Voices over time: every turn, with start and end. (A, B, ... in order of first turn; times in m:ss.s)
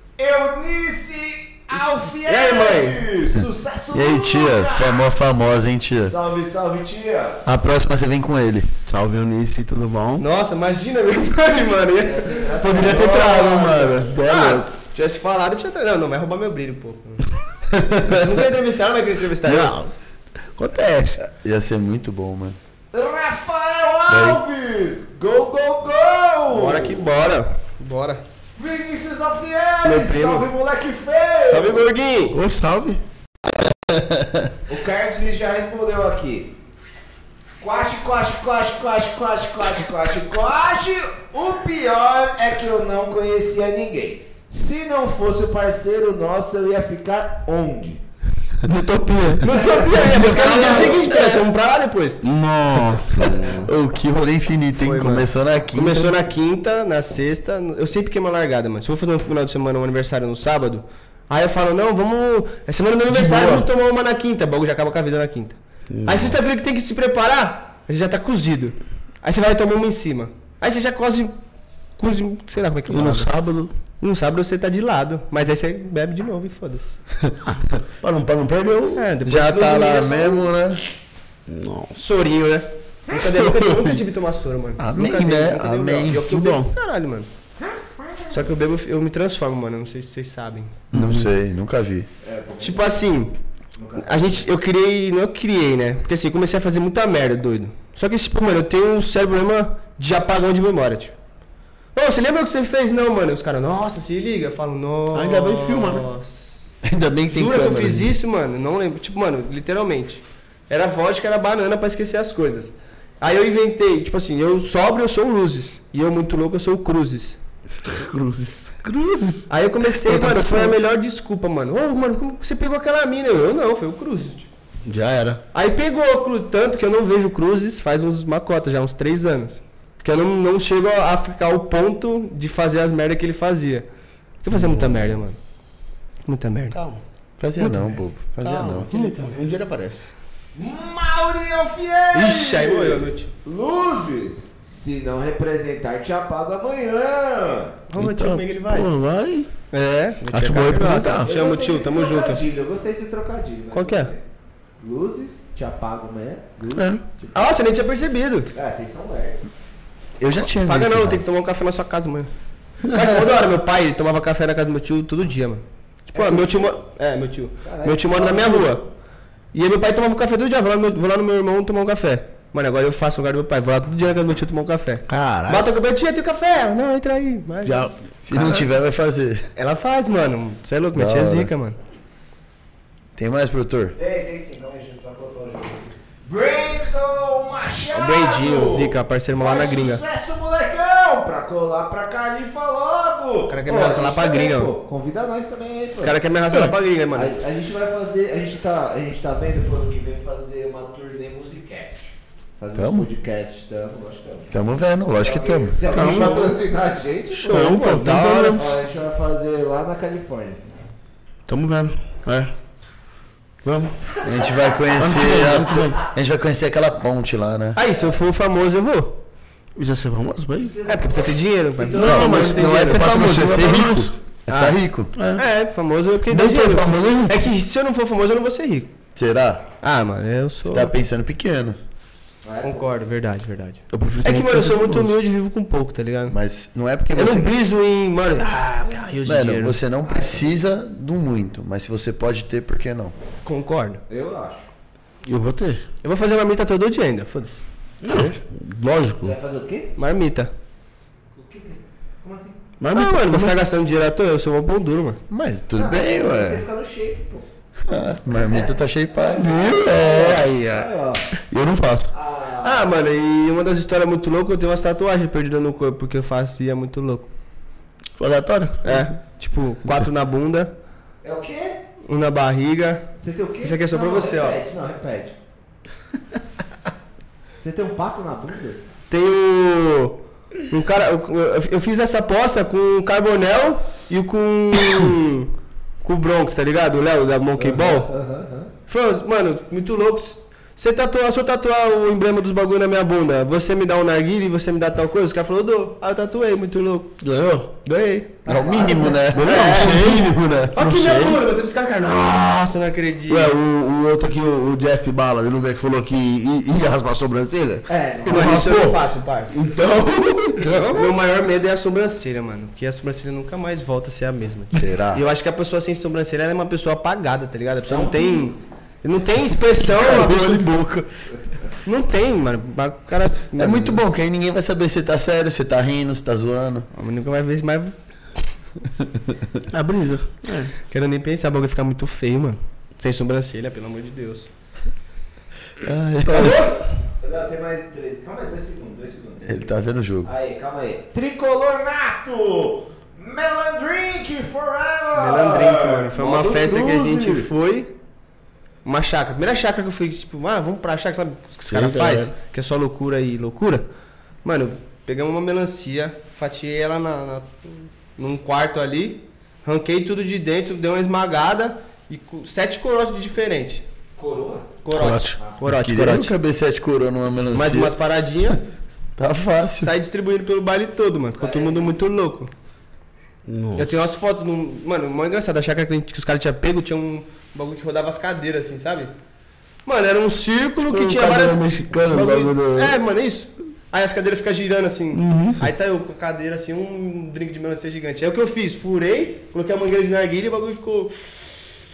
0:00.2-0:05.2 A
0:02.0-0:03.1 B
0:03.9-0:06.2 C
0:06.0-0:07.4 A
0:07.4-0:08.7 C
0:08.9-0:10.2 D
0:10.2-0:17.3 B
0:12.0-0:13.3 A
0:12.6-0:14.8 D
0:17.8-0:18.1 D
0:18.0-0:19.8 B
0:19.4-0:19.9 D
0:20.6-0:21.2 D
0:21.2-0:22.6 C
0:22.9-0:27.1 A
0:24.1-0:24.4 C
0:26.5-0:28.2 B
0:28.6-0:31.9 A
0:29.8-0:30.5 B
0:31.5-0:32.4 B
0:32.3-0:33.0 D
0:33.5-0:34.5 C
0:34.7-0:36.5 A
0:37.6-0:48.0 A
0:48.6-0:51.1 D
0:49.4-0:52.2 B
0:49.6-0:51.3 A
0:52.2-0:53.7 D
0:53.4-0:53.7 A
0:53.6-0:56.2 C
0:54.8-1:11.3 B
1:03.1-1:03.7 D
1:05.9-1:06.4 D
1:12.0-1:13.3 B
1:12.9-1:13.7 D
1:14.0-1:17.0 B
1:17.5-1:19.1 D
1:19.0-1:20.5 B
1:19.2-1:20.8 C
1:21.5-1:22.0 D
1:22.0-1:27.3 B
1:23.2-1:23.7 C
1:24.8-1:26.3 C
1:26.1-1:26.7 D
1:28.3-1:30.8 B
1:30.9-1:31.3 D
1:30.9-1:32.1 C
1:32.2-1:33.0 A
1:32.6-1:33.3 B
1:33.7-1:34.5 A
1:34.0-1:41.1 B
1:42.0-1:46.4 B
1:45.1-1:46.1 D
1:46.8-1:48.2 C
1:47.3-1:57.4 B
1:57.8-1:59.5 D
1:59.5-2:04.5 B
2:00.0-2:00.8 D
2:04.9-2:05.4 D
2:05.5-2:13.9 B
2:14.4-2:15.4 B
2:14.5-2:15.4 D
2:16.3-2:16.8 B
2:16.7-2:17.0 D
2:17.4-2:18.9 C
2:18.4-2:20.1 D
2:18.9-2:19.4 B
2:20.6-2:27.8 A
2:22.1-2:23.3 B
2:27.9-2:28.9 B
2:28.0-2:29.5 D
2:29.7-2:32.4 B
2:30.3-2:31.3 D
2:31.2-2:34.2 A
2:33.7-2:34.1 B
2:34.8-2:37.5 A
2:36.8-2:37.0 D
2:37.3-2:38.5 B
2:38.5-2:39.5 A
2:40.2-2:41.2 C
2:40.6-2:42.3 B
2:42.8-2:48.8 B
2:46.1-2:46.8 A
2:47.6-2:48.8 A
2:49.5-2:57.9 B
2:55.1-2:55.7 D
2:57.6-2:58.6 D
2:58.2-2:59.4 C
2:59.6-3:01.8 B
3:00.9-3:01.5 C
3:03.2-3:04.0 C
3:04.0-3:16.2 A
3:07.9-3:10.0 B
3:13.5-3:14.7 B
3:16.0-3:17.4 B
3:17.1-3:24.5 A
3:22.8-3:23.1 C
3:24.5-3:25.8 C
3:25.2-3:27.7 A
3:25.9-3:26.6 D
3:27.3-3:28.7 B
3:27.5-3:28.6 D
3:28.6-3:30.6 A
3:31.5-3:32.5 D
3:33.6-3:34.0 D
3:34.2-3:35.0 A
3:34.2-3:37.8 C
3:35.0-3:36.0 D
3:37.8-3:39.2 B
3:39.8-3:40.8 D
3:40.6-3:42.4 A
3:40.9-3:43.2 B
3:41.9-3:44.1 D
3:42.0-3:45.1 C
3:44.5-3:44.8 B
3:45.2-3:45.4 D
3:45.3-3:48.9 B
3:46.3-3:47.4 D
3:49.2-3:49.7 C
3:49.8-3:50.9 B
3:50.6-3:51.8 C
3:52.4-3:52.9 A
3:52.6-3:56.4 B
3:53.9-3:55.1 D
3:56.3-3:57.5 C
3:57.1-3:59.8 B
3:59.2-4:03.1 C
4:00.0-4:00.6 A
4:03.4-4:04.0 B
4:04.1-4:04.7 A
4:05.2-4:05.8 D
4:06.0-4:07.6 B
4:08.0-4:09.3 D
4:09.2-4:09.9 A
4:10.0-4:10.5 B
4:11.4-4:12.6 A
4:12.8-4:13.6 D
4:12.9-4:15.2 B
4:15.3-4:16.6 C
4:15.8-4:17.5 A
4:17.9-4:20.4 C
4:18.4-4:21.2 A
4:19.6-4:20.9 D
4:21.5-4:22.1 D
4:22.1-4:22.9 A
4:22.6-4:27.3 B
4:28.2-4:29.1 D
4:28.8-4:30.7 B
4:31.2-4:31.8 A
4:32.1-4:34.6 B
4:33.2-4:35.4 A
4:37.6-4:38.9 A
4:39.1-4:45.5 B
4:46.0-4:48.1 B
4:47.6-4:48.7 A
4:48.9-4:57.2 B
4:57.2-4:57.7 D
4:57.8-4:58.4 B
4:58.4-4:59.2 A
4:58.5-5:01.0 C
4:59.3-5:01.4 D
4:59.4-5:03.6 B
5:03.3-5:11.1 D
5:07.9-5:08.6 A
5:08.3-5:09.6 B
5:10.7-5:20.7 B
5:14.7-5:15.2 C
5:17.9-5:18.6 A
5:19.8-5:21.1 C
5:21.8-5:24.0 B
5:23.6-5:26.9 C
5:26.9-5:28.0 B
5:29.0-5:29.5 C
5:29.7-5:30.7 D
5:30.9-5:34.5 B
5:35.8-5:36.6 C
5:36.3-5:36.8 B
5:37.2-5:39.7 A
5:39.4-5:40.3 C
5:40.2-5:47.5 A
5:45.2-5:47.9 B
5:48.8-5:53.9 B
5:51.7-5:52.3 D
5:54.4-6:03.8 B
6:04.2-6:04.7 A
6:04.8-6:06.3 B
6:04.9-6:05.4 D
6:05.6-6:08.0 C
6:07.5-6:08.6 B
6:09.2-6:09.9 C
6:09.8-6:12.5 B
6:11.4-6:12.0 A
6:13.5-6:14.0 D
6:13.8-6:19.1 B
6:19.9-6:31.2 B
6:20.9-6:23.0 D
6:25.1-6:25.7 D